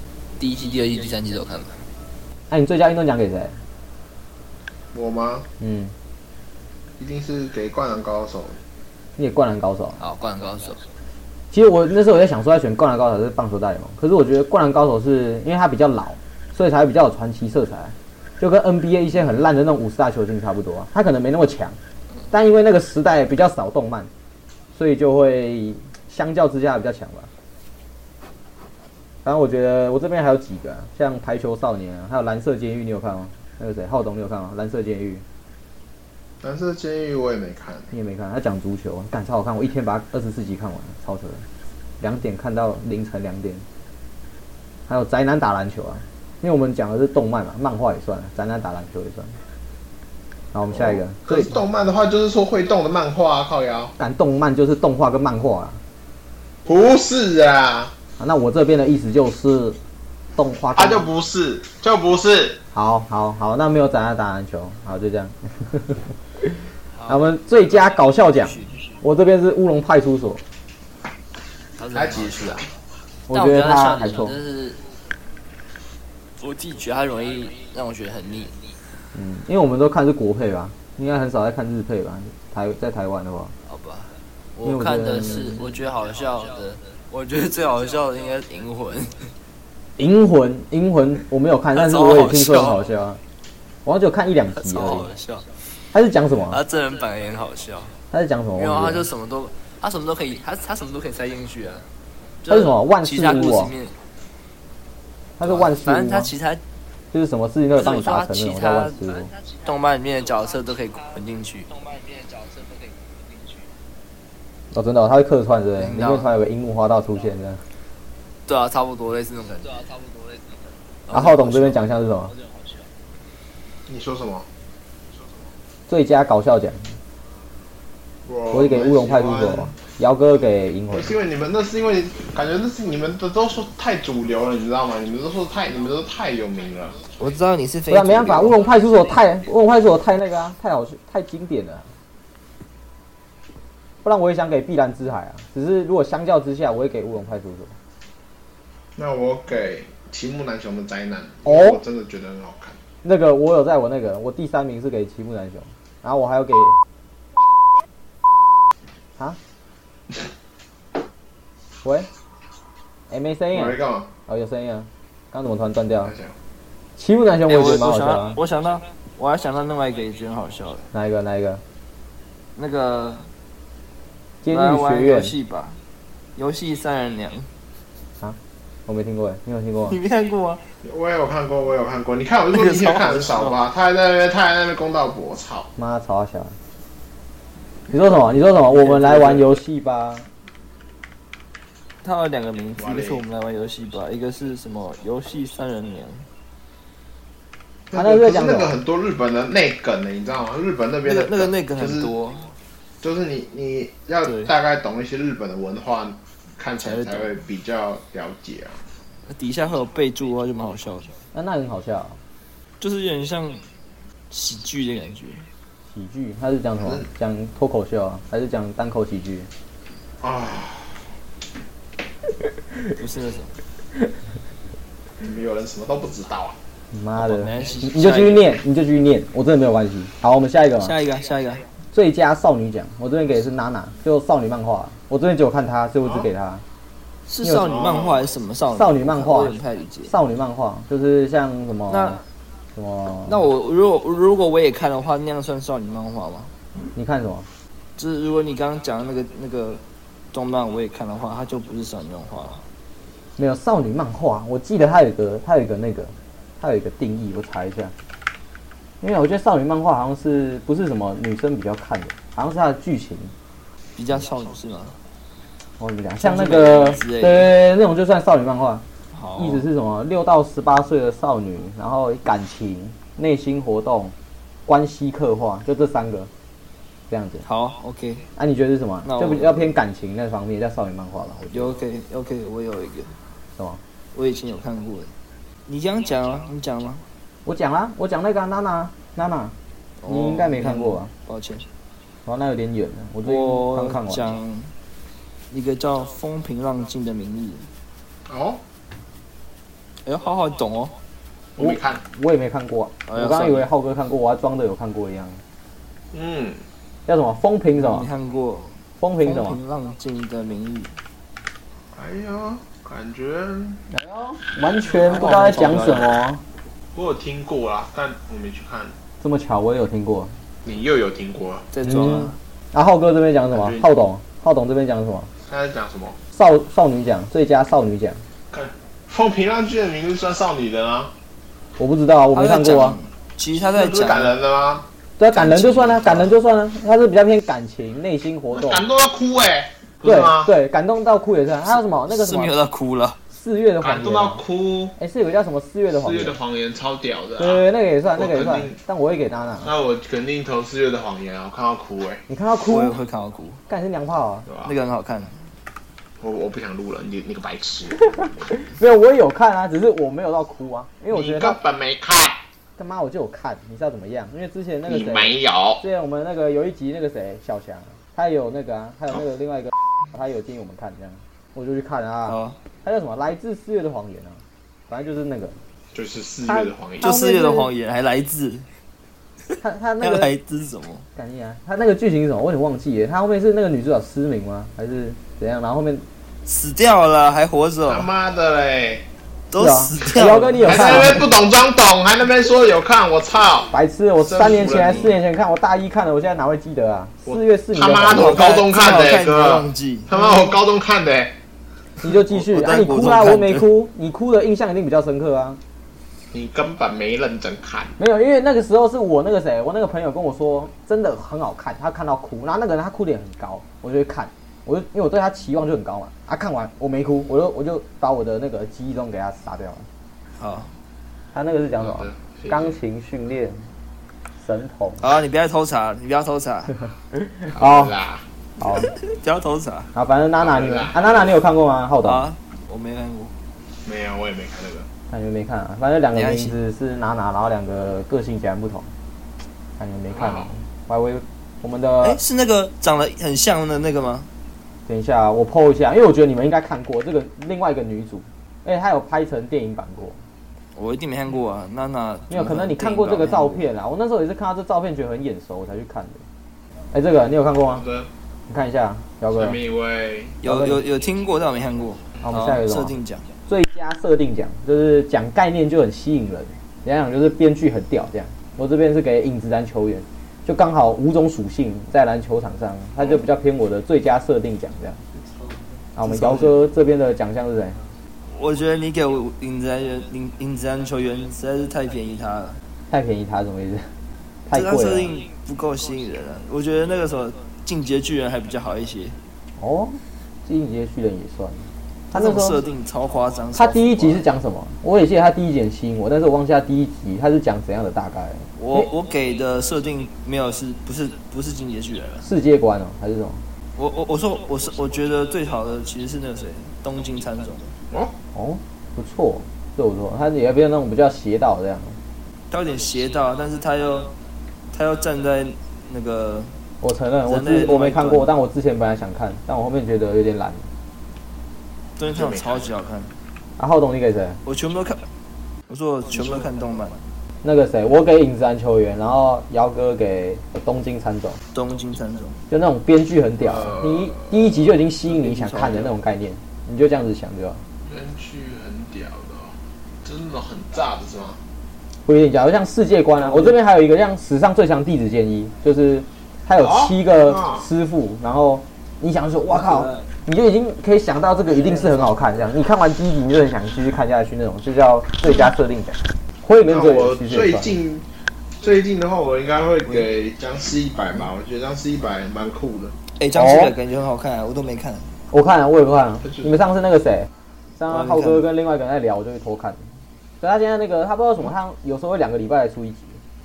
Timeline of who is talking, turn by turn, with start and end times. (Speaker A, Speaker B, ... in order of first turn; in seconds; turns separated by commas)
Speaker A: 0.4-1.8, Speaker B: 2.5-3.6, Speaker C: 4.9-5.5, Speaker B: 5.6-5.9, Speaker C: 7.0-8.6, Speaker B: 9.2-10.0, Speaker A: 10.0-10.8, Speaker B: 11.5-21.8, Speaker B: 22.3-24.1, Speaker B: 24.7-27.3, Speaker B: 29.2-35.2, Speaker C: 36.4-37.9, Speaker B: 37.9-41.4, Speaker B: 42.0-43.6, Speaker B: 44.9-49.4, Speaker B: 50.5-51.5, Speaker C: 50.7-53.9, Speaker B: 54.0-55.8, Speaker C: 56.6-57.9, Speaker B: 58.2-59.8, Speaker B: 60.4-61.0, Speaker C: 60.7-62.6, Speaker B: 62.7-70.4, Speaker A: 66.9-68.9, Speaker A: 71.8-72.7, Speaker C: 71.9-72.7, Speaker B: 73.3-74.3, Speaker A: 73.3-74.8, Speaker A: 76.4-78.6, Speaker B: 79.1-83.5, Speaker A: 83.7-89.3, Speaker B: 84.6-85.7, Speaker B: 90.0-93.2, Speaker A: 91.7-92.8, Speaker B: 93.8-95.1, Speaker A: 94.5-95.5, Speaker B: 95.9-96.6, Speaker A: 96.5-97.9, Speaker B: 98.1-99.0, Speaker A: 98.5-101.8, Speaker A: 102.4-104.0, Speaker B: 102.5-103.7, Speaker B: 105.4-106.3, Speaker A: 105.4-106.6, Speaker B: 107.1-109.3, Speaker A: 107.7-111.8, Speaker B: 114.7-117.6, Speaker A: 115.8-116.3, Speaker A: 118.5-119.8, Speaker A: 121.1-121.8, Speaker B: 121.1-122.3, Speaker C: 123.9-124.5, Speaker B: 125.9-126.9, Speaker C: 128.2-129.7, Speaker B: 128.5-131.1, Speaker C: 130.9-137.0, Speaker A: 137.2-138.6, Speaker B: 137.9-141.9, Speaker B: 144.0-147.7, Speaker C: 148.9-152.8, Speaker B: 151.4-151.8, Speaker B: 153.0-156.8, Speaker B: 161.8-162.1, Speaker B: 163.1-166.1, Speaker C: 163.5-164.1, Speaker C: 166.0-166.3, Speaker B: 167.0-168.4, Speaker A: 167.5-170.9, Speaker B: 170.9-171.6, Speaker A: 172.6-173.3, Speaker B: 174.4-175.3, Speaker A: 174.5-175.8, Speaker A: 176.3-177.5, Speaker B: 178.2-180.0, Speaker A: 179.9-180.6, Speaker C: 180.8-185.7, Speaker A: 182.5-183.6, Speaker B: 185.8-186.6, Speaker B: 187.9-190.3, Speaker A: 188.7-189.5, Speaker A: 192.0-196.3, Speaker C: 192.8-193.2, Speaker C: 197.9-202.1, Speaker B: 197.9-198.8, Speaker A: 201.0-202.5, Speaker C: 203.0-208.8, Speaker A: 204.2-204.5, Speaker A: 206.8-207.3, Speaker A: 209.3-211.1, Speaker B: 211.3-212.2, Speaker A: 212.8-213.6, Speaker A: 214.3-215.5, Speaker B: 215.9-219.5, Speaker C: 216.8-217.1, Speaker C: 220.2-221.1, Speaker A: 223.0-223.5, Speaker C: 225.2-226.6, Speaker B: 226.9-230.9, Speaker A: 227.2-228.5, Speaker A: 230.8-231.7, Speaker B: 231.9-236.6, Speaker A: 237.3-240.1, Speaker B: 237.4-237.7, Speaker C: 237.6-238.3, Speaker B: 238.7-242.2, Speaker A: 241.9-242.2, Speaker B: 242.7-243.4, Speaker A: 243.2-246.5, Speaker B: 246.9-247.5, Speaker A: 248.0-249.8, Speaker A: 250.3-252.6, Speaker B: 253.4-257.9, Speaker B: 259.0-263.3, Speaker A: 263.9-264.9, Speaker B: 265.8-268.8, Speaker A: 266.2-267.5, Speaker A: 269.1-269.6, Speaker B: 269.4-274.1, Speaker B: 274.6-276.3, Speaker B: 277.1-277.4, Speaker A: 277.4-278.3, Speaker B: 278.4-281.8, Speaker A: 279.0-279.7, Speaker A: 281.5-283.1, Speaker A: 284.1-285.1, Speaker A: 285.7-287.0, Speaker B: 287.4-289.5, Speaker A: 290.0-291.6, Speaker B: 290.1-291.1, Speaker B: 292.2-294.3, Speaker A: 293.2-294.7, Speaker A: 295.5-297.7, Speaker C: 298.3-298.6, Speaker A: 300.0-300.9, Speaker C: 301.6-302.0, Speaker B: 301.6-305.4, Speaker A: 303.1-303.7, Speaker C: 306.1-306.6, Speaker B: 307.1-308.1, Speaker A: 307.7-311.0, Speaker B: 309.0-309.6, Speaker C: 311.9-313.8, Speaker B: 313.9-316.4, Speaker A: 315.0-316.2, Speaker C: 315.1-315.8, Speaker C: 316.9-318.9, Speaker B: 319.2-320.3, Speaker C: 320.6-321.7, Speaker A: 321.7-322.4, Speaker B: 321.8-325.3, Speaker C: 325.5-326.2, Speaker B: 326.3-328.2, Speaker C: 328.5-331.1, Speaker B: 331.8-333.0, Speaker A: 332.3-334.4, Speaker C: 333.7-334.9, Speaker B: 335.2-338.8, Speaker A: 335.3-336.3, Speaker C: 338.5-340.5, Speaker B: 340.0-342.5, Speaker A: 342.1-343.2, Speaker B: 343.3-344.4, Speaker C: 343.8-344.9, Speaker B: 345.0-346.4, Speaker C: 345.9-348.8, Speaker B: 347.4-349.7, Speaker C: 349.6-352.2, Speaker B: 352.3-352.9, Speaker A: 352.7-353.6, Speaker B: 353.7-354.5, Speaker C: 354.5-354.7, Speaker A: 354.6-355.4, Speaker C: 356.2-358.5, Speaker B: 358.5-361.6, Speaker C: 361.1-362.4, Speaker B: 362.8-375.6, Speaker C: 364.9-365.8, Speaker A: 372.3-372.6, Speaker C: 375.9-377.1, Speaker B: 376.4-377.7, Speaker A: 377.0-378.7, Speaker A: 379.5-381.1, Speaker B: 379.6-380.3, Speaker B: 381.1-386.0, Speaker A: 386.4-388.1, Speaker C: 387.9-389.0, Speaker A: 389.5-391.1, Speaker B: 389.5-391.3, Speaker C: 390.6-395.1, Speaker B: 393.7-398.5, Speaker C: 397.2-401.3, Speaker A: 398.1-400.1, Speaker B: 402.0-405.6, Speaker A: 402.1-403.7, Speaker C: 406.3-407.9, Speaker B: 408.0-419.9, Speaker A: 420.4-420.7, Speaker B: 421.3-423.6, Speaker C: 421.8-422.8, Speaker B: 424.4-425.0, Speaker A: 425.0-426.8, Speaker B: 427.2-427.9, Speaker C: 427.5-428.2, Speaker B: 428.6-428.9, Speaker A: 428.6-429.9, Speaker B: 429.9-432.3, Speaker C: 430.4-431.4, Speaker A: 432.0-433.3, Speaker C: 433.8-434.9, Speaker B: 435.1-438.9, Speaker A: 436.1-436.6, Speaker B: 439.8-442.2, Speaker C: 440.1-440.5, Speaker A: 442.0-444.3, Speaker B: 444.9-450.2, Speaker A: 450.7-453.6, Speaker B: 452.3-456.2, Speaker B: 456.9-457.8, Speaker C: 457.7-458.1, Speaker B: 458.5-459.6, Speaker C: 459.3-460.4, Speaker A: 460.4-463.3, Speaker B: 460.4-460.8, Speaker B: 462.2-475.0, Speaker B: 475.9-477.8, Speaker C: 476.1-476.6, Speaker A: 478.3-482.6, Speaker B: 482.9-483.9, Speaker B: 484.4-485.1, Speaker A: 484.5-489.2, Speaker B: 489.6-492.6, Speaker A: 492.1-494.2, Speaker B: 493.5-498.9, Speaker A: 498.6-502.3, Speaker B: 502.2-503.4, Speaker A: 503.8-507.7, Speaker B: 508.3-512.0, Speaker A: 512.5-514.1, Speaker A: 514.7-516.5, Speaker B: 516.8-520.6, Speaker A: 517.2-518.3, Speaker A: 522.0-523.1, Speaker C: 522.1-522.7, Speaker B: 523.6-524.4, Speaker A: 524.4-525.0, Speaker A: 525.7-527.0, Speaker B: 527.4-531.4, Speaker A: 531.5-532.4, Speaker B: 532.5-537.6, Speaker C: 533.4-534.5, Speaker A: 535.0-535.9, Speaker C: 537.8-541.4, Speaker B: 542.0-557.7, Speaker A: 543.1-543.6, Speaker C: 546.6-547.6, Speaker A: 549.5-550.1, Speaker A: 551.5-552.2, Speaker C: 556.6-558.0, Speaker C: 558.6-562.9, Speaker A: 563.2-565.1, Speaker B: 563.3-563.7, Speaker B: 565.3-569.8, Speaker C: 566.2-566.5, Speaker A: 567.9-568.5, Speaker B: 570.4-573.2